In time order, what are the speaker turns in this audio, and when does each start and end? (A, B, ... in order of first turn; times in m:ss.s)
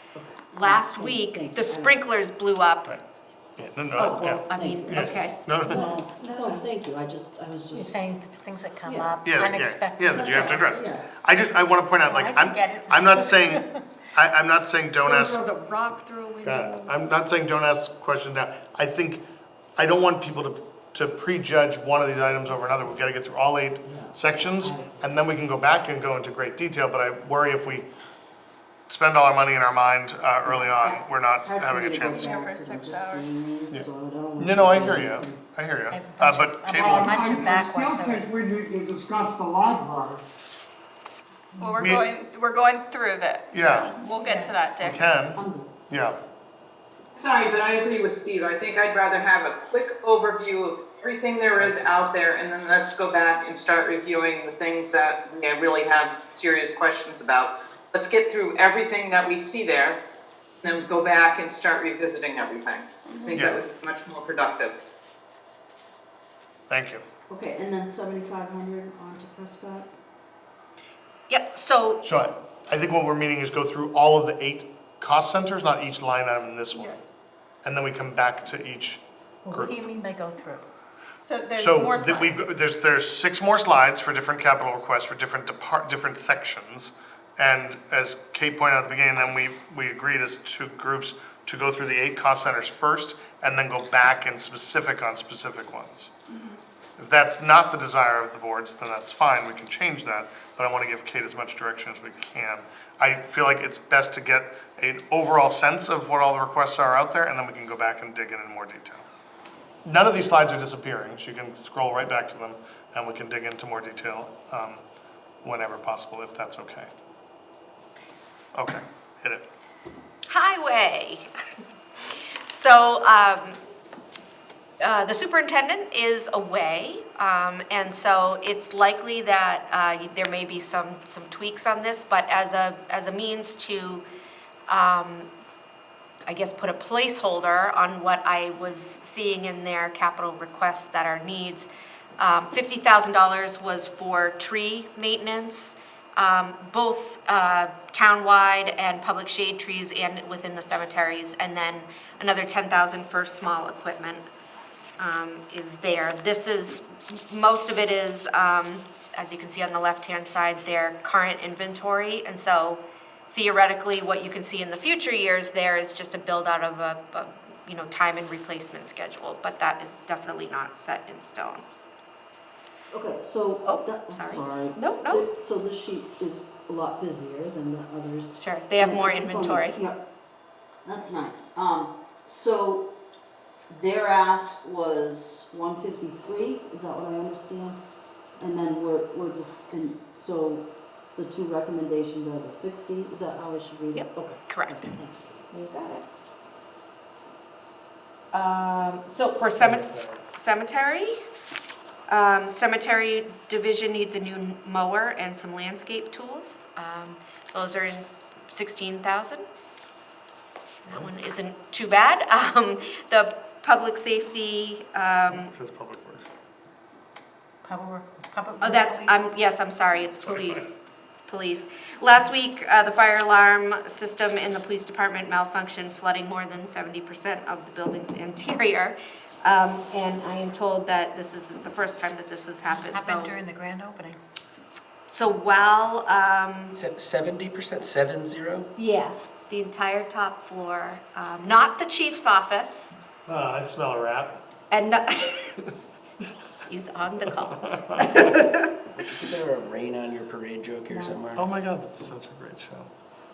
0:00.2-0:02.0 A
0:00.5-0:03.0 B
0:03.6-0:05.9 C
0:03.9-0:08.0 A
0:03.9-0:06.6 B
0:07.7-0:10.7 D
0:08.9-0:09.1 A
0:09.2-0:15.4 C
0:10.1-0:11.1 A
0:12.0-0:13.8 D
0:15.0-0:17.0 B
0:16.4-0:19.2 C
0:19.8-0:27.9 C
0:23.8-0:25.1 A
0:28.9-0:32.3 C
0:30.4-0:35.4 A
0:32.2-0:33.4 E
0:33.7-0:37.1 C
0:35.9-0:38.3 D
0:36.9-0:40.2 F
0:41.6-0:41.8 D
0:41.6-0:45.0 E
0:41.8-0:42.1 C
0:43.5-0:44.0 C
0:44.2-0:44.6 D
0:44.8-0:46.2 C
0:45.4-0:45.7 A
0:47.1-1:00.0 G
0:51.6-0:52.0 C
1:00.6-1:04.8 G
1:03.1-1:03.4 E
1:03.3-1:03.6 C
1:06.7-1:07.0 C
1:07.3-1:09.9 A
1:11.3-1:12.0 B
1:12.0-1:17.0 C
1:16.7-1:17.2 E
1:17.6-1:19.8 C
1:19.5-1:20.6 D
1:21.2-1:22.4 E
1:21.6-1:36.1 C
1:37.0-1:49.0 C
1:49.8-1:54.8 C
1:55.4-1:56.9 C
1:58.6-1:59.4 C
2:00.3-2:01.3 B
2:02.5-2:03.6 B
2:04.8-2:14.0 B
2:14.7-2:15.3 B
2:16.3-2:34.2 B
2:35.0-2:51.6 B
2:52.9-3:00.1 A
2:53.6-2:55.2 B
2:58.4-2:59.8 B
3:00.8-3:02.9 A
3:03.7-3:07.8 A
3:08.4-3:15.4 A
3:13.9-3:14.9 B
3:15.5-3:16.0 B
3:18.3-3:21.2 B
3:19.6-3:20.2 C
3:22.1-3:29.5 B
3:30.8-3:35.5 B
3:35.3-3:36.3 C
3:37.6-3:39.3 D
3:38.6-3:53.4 B
3:52.7-3:54.2 D
3:55.1-3:56.8 B
3:56.7-3:58.7 H
3:58.8-4:03.0 B
4:03.3-4:04.4 C
4:04.7-4:05.5 B
4:06.7-4:08.7 B
4:07.7-4:08.3 C
4:09.1-4:11.5 H
4:11.3-4:12.9 C